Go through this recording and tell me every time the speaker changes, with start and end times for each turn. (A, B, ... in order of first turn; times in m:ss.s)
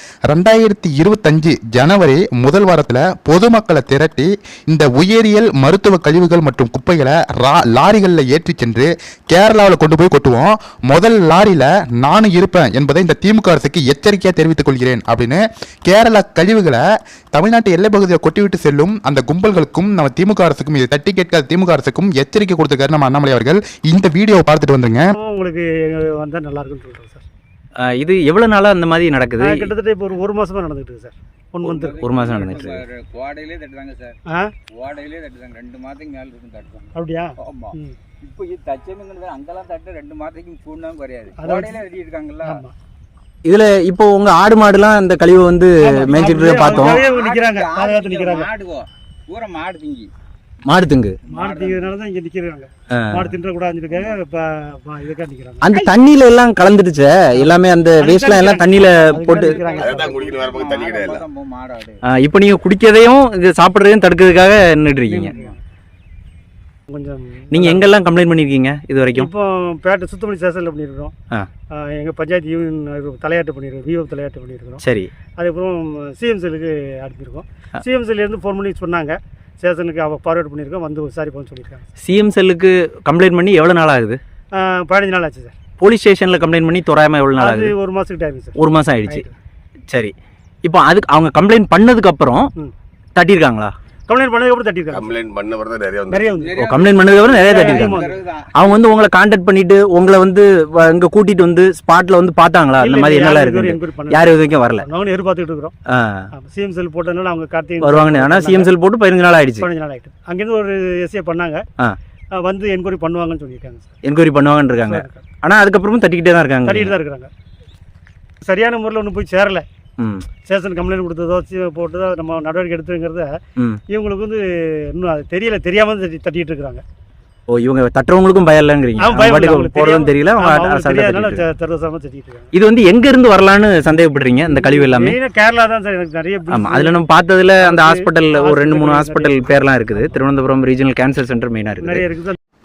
0:00.3-0:16.8 A
0:17.3-0:25.1 A
0:25.2-0:27.3 B
0:27.8-0:29.7 C
0:29.4-0:32.6 B
0:31.6-0:34.2 D
0:32.0-0:32.8 C
0:34.3-0:34.5 B
0:34.7-0:42.6 D
0:36.9-0:38.0 B
0:41.4-0:41.8 B
0:42.4-0:42.7 B
0:43.4-0:47.0 C
0:45.8-0:48.5 B
0:46.6-0:50.1 D
0:50.6-0:51.2 C
0:51.2-0:52.0 D
0:51.3-0:55.7 B
0:52.9-0:53.3 C
0:53.9-0:54.2 D
0:55.6-0:59.6 C
0:57.3-1:00.4 B
0:59.3-1:02.0 D
0:59.8-1:01.2 E
1:02.1-1:05.3 C
1:05.0-1:05.6 B
1:05.2-1:05.5 D
1:06.9-1:07.9 B
1:07.5-1:09.3 C
1:09.1-1:11.1 B
1:11.7-1:14.8 B
1:14.8-1:15.1 C
1:15.4-1:21.9 B
1:22.0-1:24.2 C
1:24.5-1:25.6 B
1:25.8-1:27.7 C
1:27.4-1:29.3 B
1:28.6-1:29.2 C
1:29.9-1:32.5 C
1:33.1-1:33.7 C
1:34.1-1:35.1 B
1:34.9-1:36.2 E
1:36.1-1:36.7 B
1:36.3-1:38.7 D
1:36.6-1:38.0 C
1:37.3-1:38.2 B
1:38.5-1:44.8 C
1:42.8-1:45.7 B
1:45.9-1:46.3 C
1:46.3-1:48.7 B
1:47.8-1:49.6 C
1:49.6-1:51.6 B
1:52.3-1:53.9 B
1:54.0-1:56.9 C
1:54.8-1:55.2 B
1:56.6-1:57.3 B
1:58.4-1:59.6 B
2:00.0-2:00.2 C
2:00.4-2:03.4 B
2:03.9-2:06.8 B
2:07.5-2:11.4 C
2:09.0-2:12.5 B
2:12.5-2:15.2 C
2:14.4-2:17.1 B
2:16.5-2:22.0 C
2:17.6-2:20.2 B
2:21.8-2:22.4 B